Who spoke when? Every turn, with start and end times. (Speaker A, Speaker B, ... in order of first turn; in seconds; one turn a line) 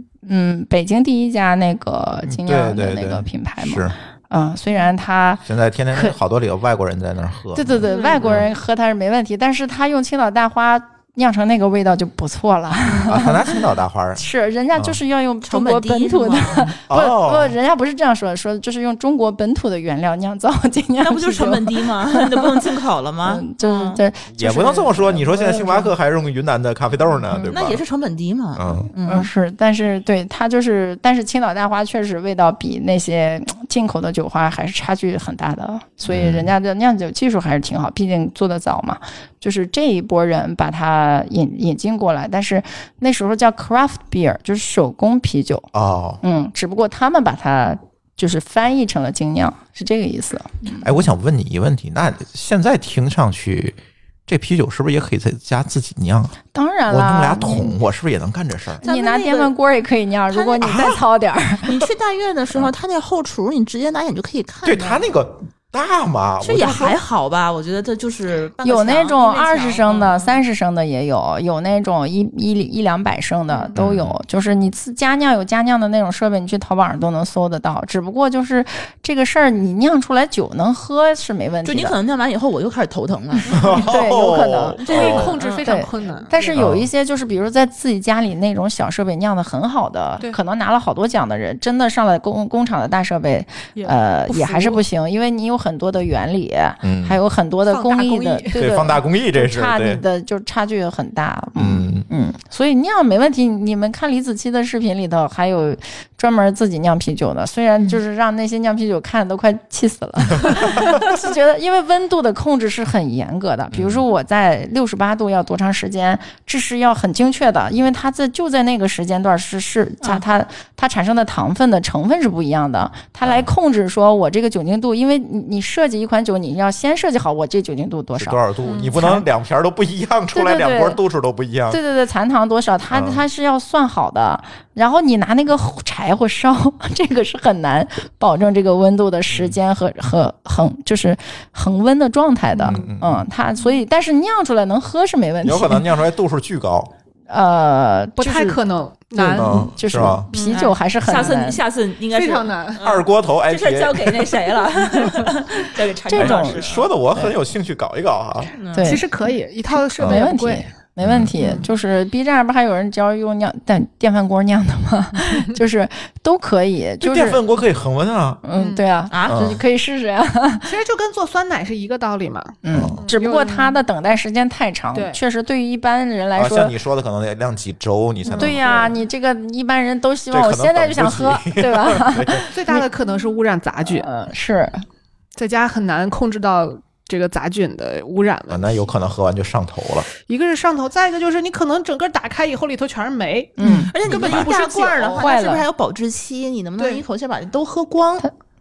Speaker A: 0.2-6.2
Speaker B: 2.3-3.9
Speaker B: 5.5-8.5
Speaker A: 7.5-13.6
Speaker C: 7.9-8.4
Speaker D: 12.9-13.2
Speaker B: 13.0-14.2
Speaker A: 14.2-22.6
Speaker D: 15.4-16.7
Speaker B: 16.9-17.6
Speaker D: 21.0-24.0
Speaker A: 23.2-25.9
Speaker B: 24.3-27.8
Speaker D: 27.5-29.3
Speaker B: 28.6-28.9
Speaker A: 29.0-45.7
Speaker B: 36.0-36.5
Speaker B: 45.7-46.2
Speaker A: 46.2-50.9
Speaker B: 50.8-56.4
Speaker A: 56.5-57.8
Speaker B: 56.9-58.8
Speaker D: 58.8-59.5
Speaker A: 58.8-61.8
Speaker D: 60.3-61.0
Speaker D: 61.6-65.0
Speaker B: 64.6-67.0
Speaker D: 66.4-70.4
Speaker A: 68.6-82.0
Speaker B: 73.8-74.1
Speaker D: 81.6-83.8
Speaker A: 83.3-129.2
Speaker B: 83.5-85.4
Speaker D: 84.9-85.8
Speaker C: 84.9-86.6
Speaker B: 86.5-86.9
Speaker C: 93.7-94.8
Speaker B: 96.8-97.2
Speaker C: 97.7-98.7
Speaker B: 98.5-100.0
Speaker B: 101.6-102.0
Speaker B: 113.7-114.0
Speaker B: 128.1-131.8
Speaker C: 128.6-129.0
Speaker A: 130.3-131.0
Speaker A: 131.7-145.9
Speaker B: 132.9-133.2
Speaker B: 139.3-139.6
Speaker B: 142.6-143.2
Speaker B: 145.4-146.9
Speaker A: 147.3-148.6
Speaker C: 148.2-149.7
Speaker A: 149.1-151.6
Speaker B: 149.4-150.3
Speaker C: 150.3-150.7
Speaker D: 150.5-156.9
Speaker C: 152.1-152.8
Speaker B: 152.8-154.4
Speaker A: 156.1-157.3
Speaker B: 156.1-158.5
Speaker D: 158.6-158.9
Speaker A: 158.7-159.1
Speaker C: 158.8-160.7
Speaker A: 160.0-167.4
Speaker B: 161.0-161.3
Speaker B: 167.0-168.4
Speaker A: 168.4-170.7
Speaker C: 168.6-168.9
Speaker D: 169.1-169.5
Speaker B: 169.2-169.6
Speaker C: 170.7-173.8
Speaker A: 172.6-176.7
Speaker B: 172.7-173.0
Speaker C: 174.9-175.2
Speaker B: 176.3-178.8
Speaker C: 178.2-178.9
Speaker A: 178.3-182.8
Speaker B: 180.3-182.4
Speaker C: 182.5-184.1
Speaker A: 183.9-184.8
Speaker C: 185.3-188.9
Speaker B: 188.5-190.1
Speaker C: 190.2-195.3
Speaker A: 193.6-193.9
Speaker D: 193.6-198.2
Speaker B: 194.0-194.5
Speaker A: 195.2-195.6
Speaker C: 196.8-197.0